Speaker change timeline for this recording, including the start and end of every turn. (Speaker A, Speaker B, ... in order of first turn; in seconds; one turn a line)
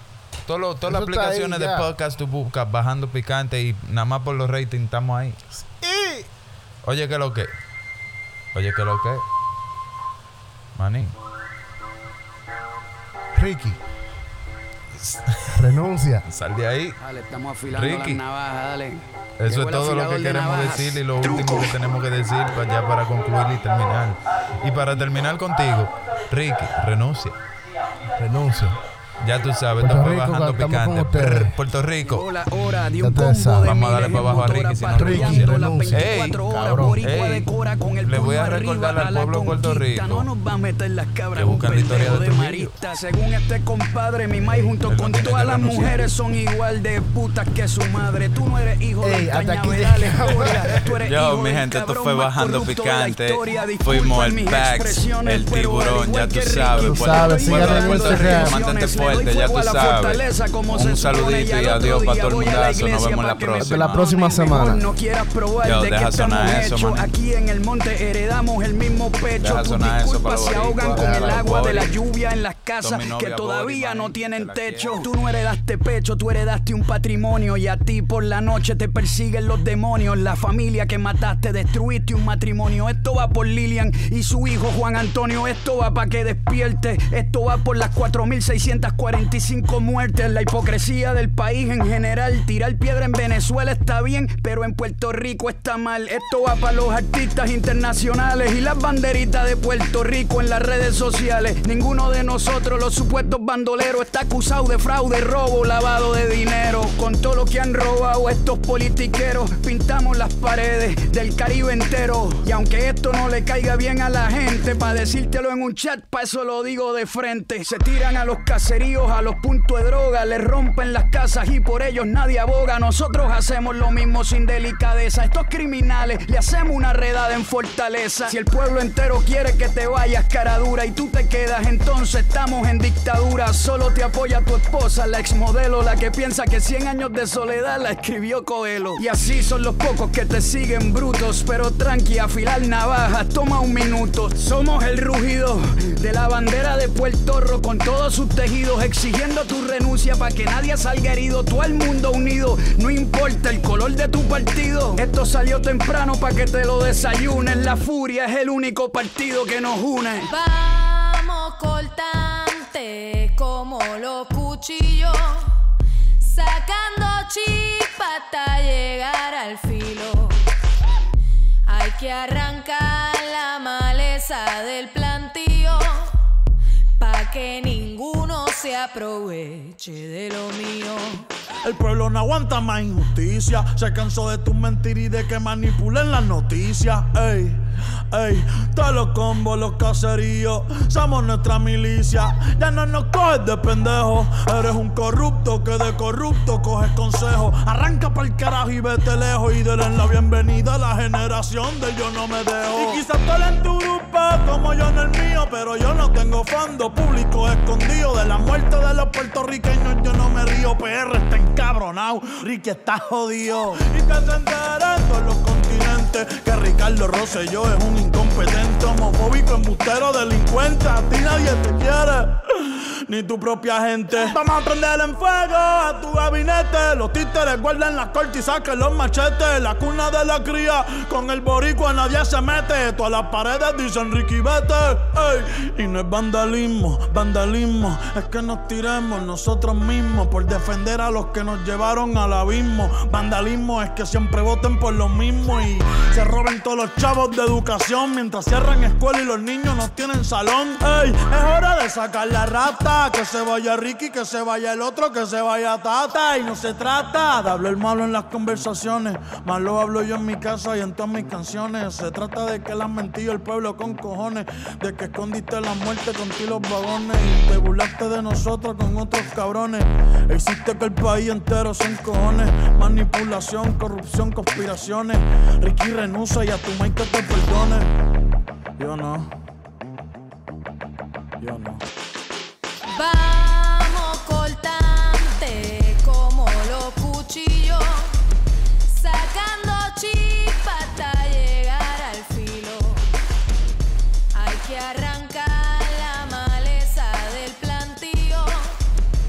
Speaker A: 0.5-5.4
Speaker B: 0.8-1.9
Speaker B: 5.6-6.3
Speaker A: 6.8-7.5
Speaker A: 8.5-9.2
Speaker A: 10.8-11.2
Speaker B: 13.3-13.8
Speaker A: 15.0-15.7
Speaker B: 15.5-16.3
Speaker A: 16.3-17.0
Speaker C: 17.0-21.7
Speaker A: 17.7-18.2
Speaker A: 19.4-27.4
Speaker B: 28.2-28.8
Speaker A: 29.2-32.3
Speaker B: 29.8-31.6
Speaker C: 32.0-160.3
Speaker B: 33.0-33.8
Speaker A: 33.6-36.5
Speaker B: 35.0-37.0
Speaker A: 37.0-37.5
Speaker A: 38.0-40.3
Speaker A: 41.4-42.7
Speaker A: 44.9-46.0
Speaker B: 49.0-50.7
Speaker A: 50.8-64.1
Speaker B: 56.8-58.6
Speaker B: 63.6-64.8
Speaker A: 65.6-67.1
Speaker A: 69.4-71.9
Speaker B: 70.9-71.5
Speaker A: 72.8-75.1
Speaker D: 160.3-165.5
Speaker D: 166.2-170.4
Speaker D: 171.7-176.1
Speaker D: 177.0-181.3
Speaker E: 181.6-277.9
Speaker E: 278.8-279.3
Speaker E: 281.4-281.8
Speaker D: 282.9-288.1
Speaker D: 288.9-293.1
Speaker D: 294.4-298.8